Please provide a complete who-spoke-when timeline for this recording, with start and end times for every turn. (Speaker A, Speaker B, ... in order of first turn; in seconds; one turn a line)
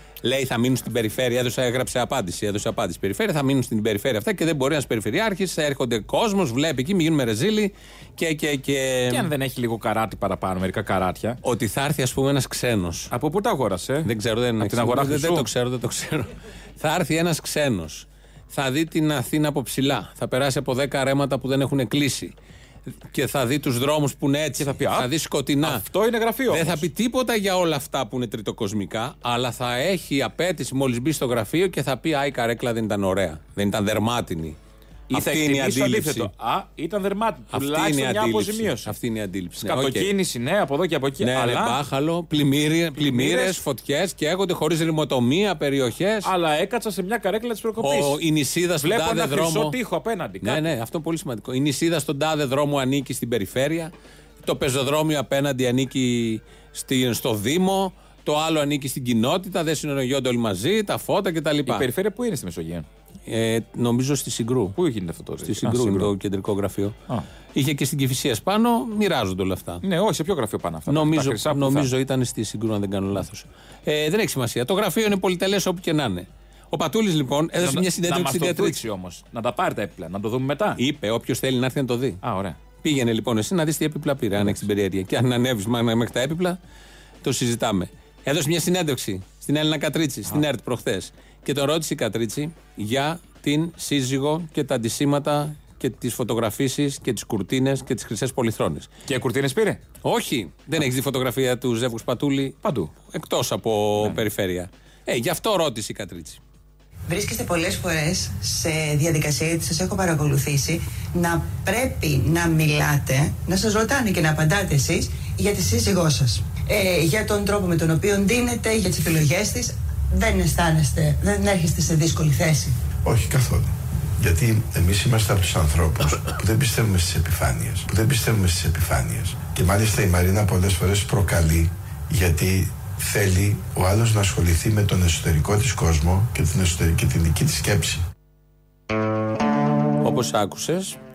Speaker A: 0.2-9.3
Speaker B: 9.1-11.4
Speaker A: 11.4-13.1
Speaker B: 13.1-15.5
Speaker A: 14.1-22.4
Speaker A: 23.1-25.8
Speaker B: 24.6-25.1
Speaker B: 25.6-26.9
Speaker A: 26.5-34.6
Speaker B: 35.1-39.0
Speaker A: 35.1-36.3
Speaker A: 37.5-40.1
Speaker B: 39.6-41.8
Speaker A: 41.2-46.3
Speaker B: 43.0-43.6
Speaker B: 46.2-48.2
Speaker A: 47.8-49.8
Speaker B: 48.8-50.7
Speaker A: 50.4-53.9
Speaker A: 54.4-61.9
Speaker B: 61.7-62.9
Speaker A: 63.3-64.8
Speaker B: 64.8-66.1
Speaker A: 65.4-67.0
Speaker A: 67.5-69.8
Speaker B: 69.8-71.9
Speaker A: 70.9-78.8
Speaker B: 77.6-80.8
Speaker A: 80.8-82.2
Speaker B: 82.2-82.6
Speaker A: 82.8-86.6
Speaker A: 87.2-98.9
Speaker B: 99.1-99.8
Speaker A: 100.0-102.6
Speaker B: 102.6-102.9
Speaker A: 103.1-106.4
Speaker C: 107.1-122.8
Speaker D: 123.0-138.0
Speaker A: 140.0-141.0